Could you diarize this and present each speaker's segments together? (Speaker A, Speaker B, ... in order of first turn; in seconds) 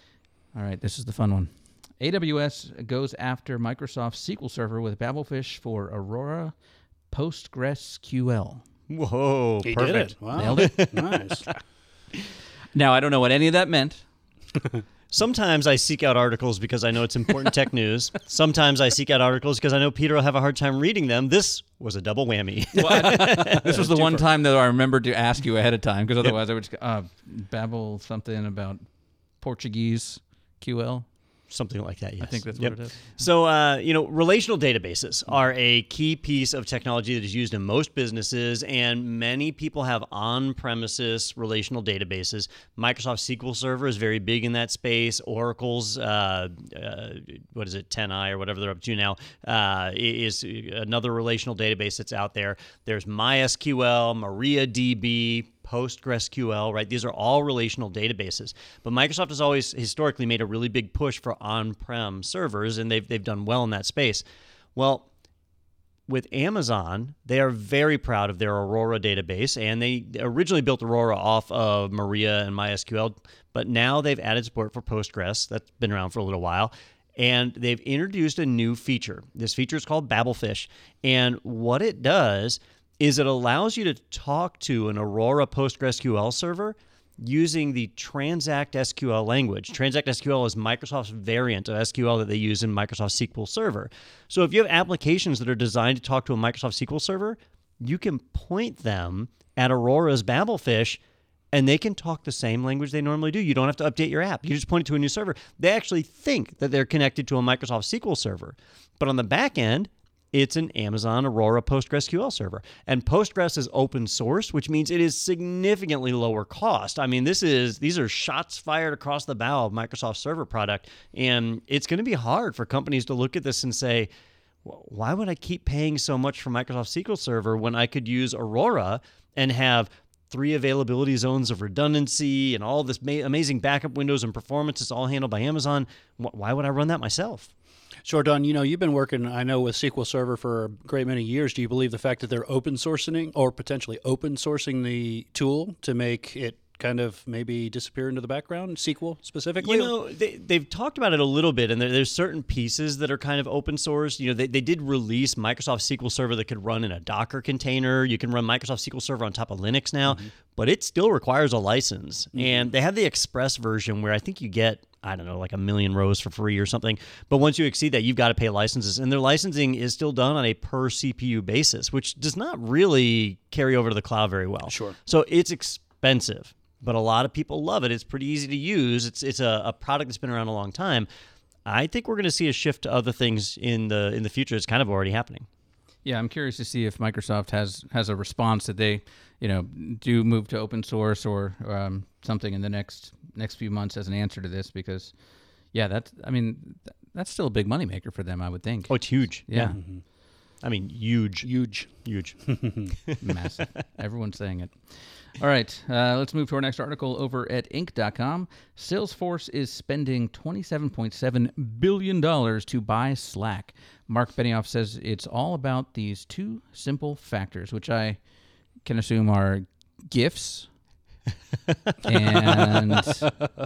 Speaker A: 0.5-6.5, 7.1-8.6, 10.3-10.9, 12.7-14.1, 22.8-28.9, 29.4-31.1, 32.2-33.3, 186.1-195.1, 195.7-199.8, 203.2-218.2, 218.8-220.7, 222.1-223.3
Speaker B: 8.9-11.4, 15.1-24.3, 31.5-64.2, 64.8-65.1, 66.1-101.0, 101.5-124.1, 124.6-137.5, 149.6-181.1, 181.7-185.5, 198.9-199.8, 200.6-203.2
Speaker C: 9.6-11.4, 138.1-149.9, 162.3-162.7, 174.7-175.0, 199.7-200.0, 201.4-202.9